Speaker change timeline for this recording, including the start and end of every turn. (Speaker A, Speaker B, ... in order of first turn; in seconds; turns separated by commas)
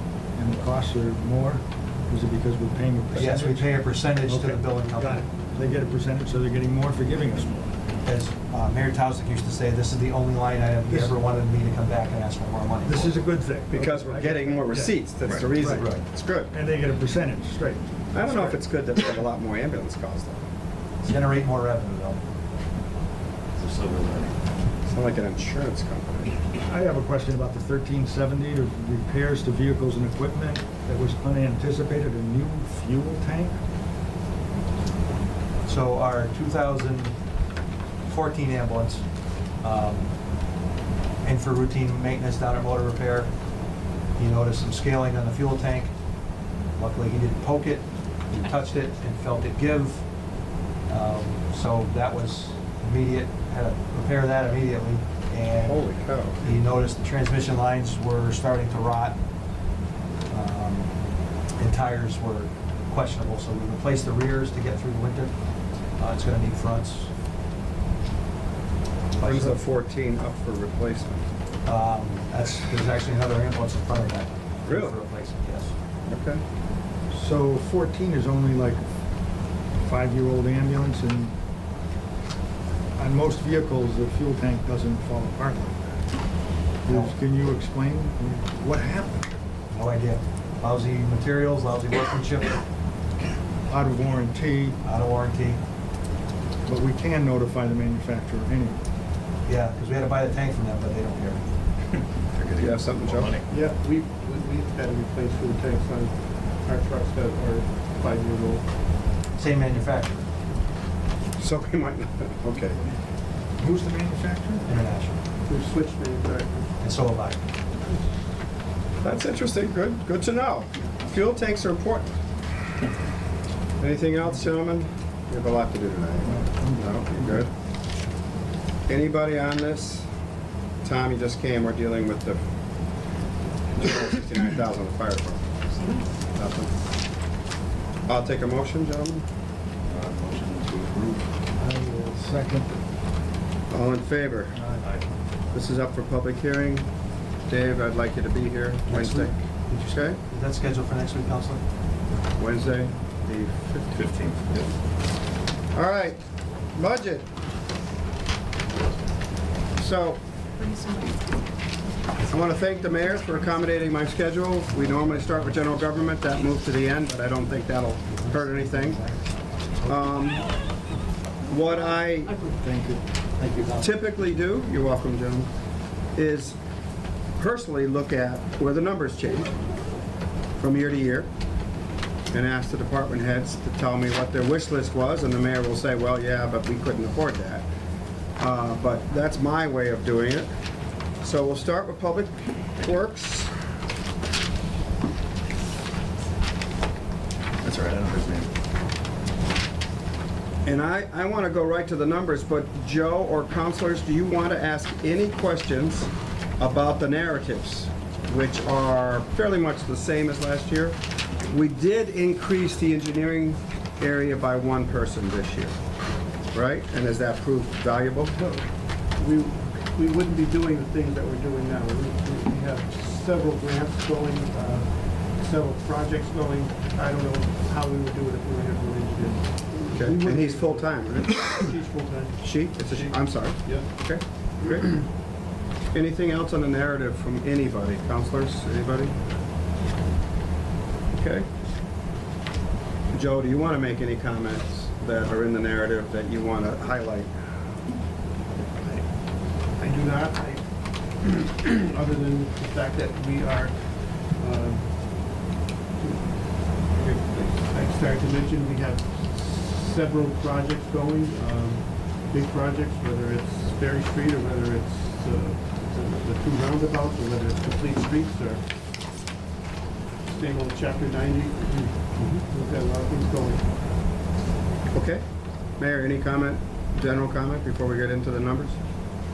Speaker A: 0.3-7.7, Speaker B: 3.1-5.3, Speaker B: 8.1-13.2, Speaker A: 12.8-18.6, Speaker C: 13.7-16.5, Speaker B: 15.7-16.0, Speaker C: 18.1-20.4, Speaker B: 21.0-22.2, Speaker D: 23.6-24.4, Speaker C: 24.9-26.3, Speaker A: 26.7-33.6, Speaker B: 35.6-37.1, Speaker B: 38.0-39.0, Speaker B: 39.6-40.1, Speaker B: 41.2-43.3, Speaker B: 44.2-45.9, Speaker B: 46.8-50.0, Speaker B: 50.9-55.9, Speaker C: 55.6-56.4, Speaker B: 56.4-59.2, Speaker B: 60.3-60.9, Speaker B: 61.6-65.3, Speaker B: 66.0-67.1, Speaker B: 69.2-69.6, Speaker C: 69.2-71.2, Speaker B: 71.7-75.7, Speaker C: 74.7-75.0, Speaker C: 76.1-76.4, Speaker A: 77.1-78.9, Speaker A: 79.8-81.3, Speaker A: 83.0-86.0, Speaker A: 86.8-89.3, Speaker B: 86.9-87.1, Speaker B: 89.7-92.6, Speaker A: 93.7-94.8, Speaker B: 94.8-95.6, Speaker A: 96.7-98.8, Speaker B: 99.5-101.4, Speaker D: 102.3-103.5, Speaker C: 102.6-103.4, Speaker E: 103.5-108.7, Speaker B: 109.3-110.3, Speaker C: 111.4-112.9, Speaker A: 113.6-114.7, Speaker B: 114.7-115.2, Speaker E: 115.5-116.8, Speaker B: 116.8-117.4, Speaker C: 119.0-122.2, Speaker C: 123.8-127.5, Speaker A: 126.2-127.5, Speaker C: 128.9-130.1, Speaker C: 130.8-132.4, Speaker C: 133.7-135.5, Speaker C: 136.3-136.7, Speaker C: 138.1-139.2, Speaker D: 139.8-141.3, Speaker A: 141.6-142.8, Speaker C: 143.7-144.6, Speaker A: 144.6-144.8, Speaker D: 144.7-145.1, Speaker C: 145.5-146.9, Speaker C: 147.5-149.4, Speaker B: 148.9-151.6, Speaker C: 149.9-150.2, Speaker C: 152.4-154.1, Speaker D: 153.9-154.7, Speaker C: 155.7-156.2, Speaker C: 156.7-157.3, Speaker C: 159.8-160.2, Speaker C: 162.2-169.0, Speaker B: 164.7-166.4, Speaker B: 168.1-170.5, Speaker C: 169.9-170.4, Speaker C: 171.5-172.3, Speaker A: 172.4-173.0, Speaker B: 173.4-173.9, Speaker C: 173.8-175.5, Speaker C: 176.2-176.6, Speaker C: 177.4-179.6, Speaker C: 180.6-181.3, Speaker C: 182.3-187.7, Speaker C: 188.4-190.5, Speaker C: 191.2-193.5, Speaker D: 197.6-198.5, Speaker C: 200.7-215.8, Speaker C: 216.5-218.4, Speaker E: 218.4-233.9, Speaker C: 229.9-231.7, Speaker C: 232.4-234.9, Speaker C: 235.9-239.2, Speaker C: 241.1-241.5, Speaker C: 243.1-247.5, Speaker E: 248.6-268.7, Speaker E: 270.2-273.8, Speaker C: 274.9-275.2, Speaker C: 275.8-278.8